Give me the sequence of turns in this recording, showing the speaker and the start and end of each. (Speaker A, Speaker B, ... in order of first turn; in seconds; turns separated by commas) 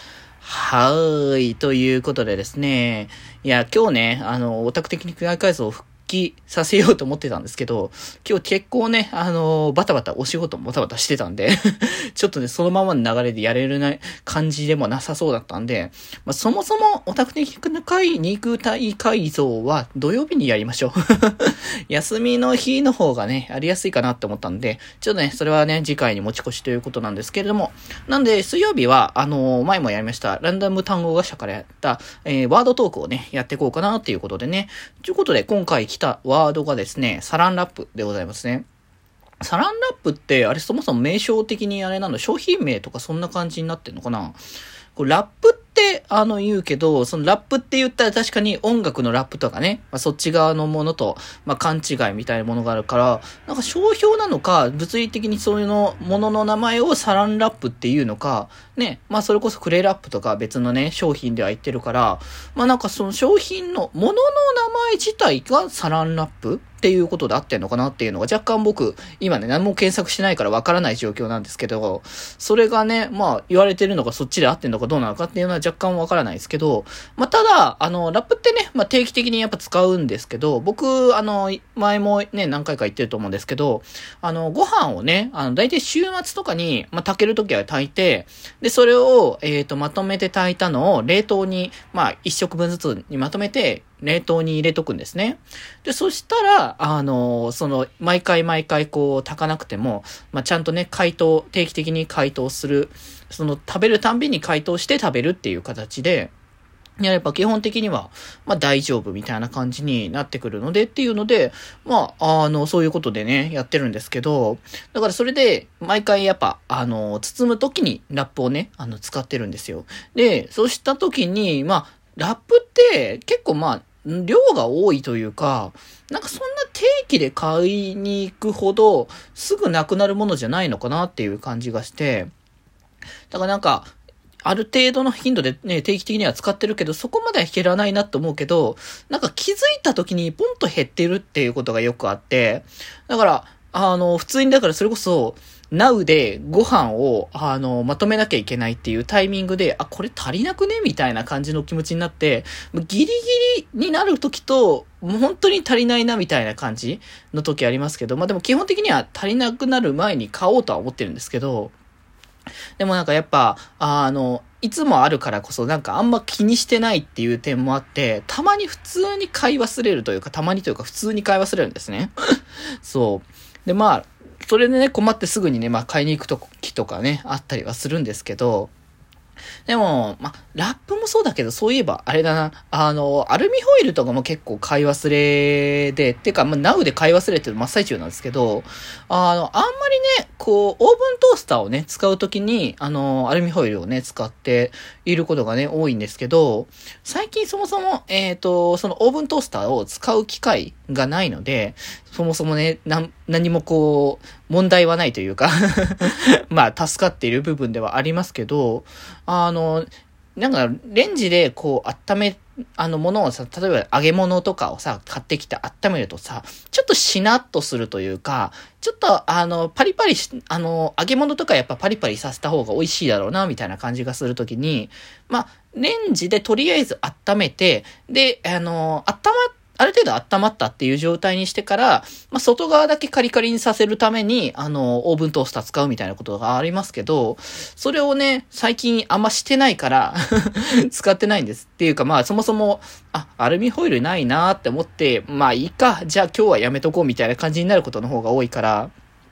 Speaker A: 0.4-38.6, Speaker A: 39.4-44.4, Speaker A: 45.0-106.3, Speaker A: 107.0-132.3, Speaker A: 133.3-133.9, Speaker A: 134.4-161.7, Speaker A: 162.8-172.1, Speaker A: 172.8-178.7, Speaker A: 179.7-248.9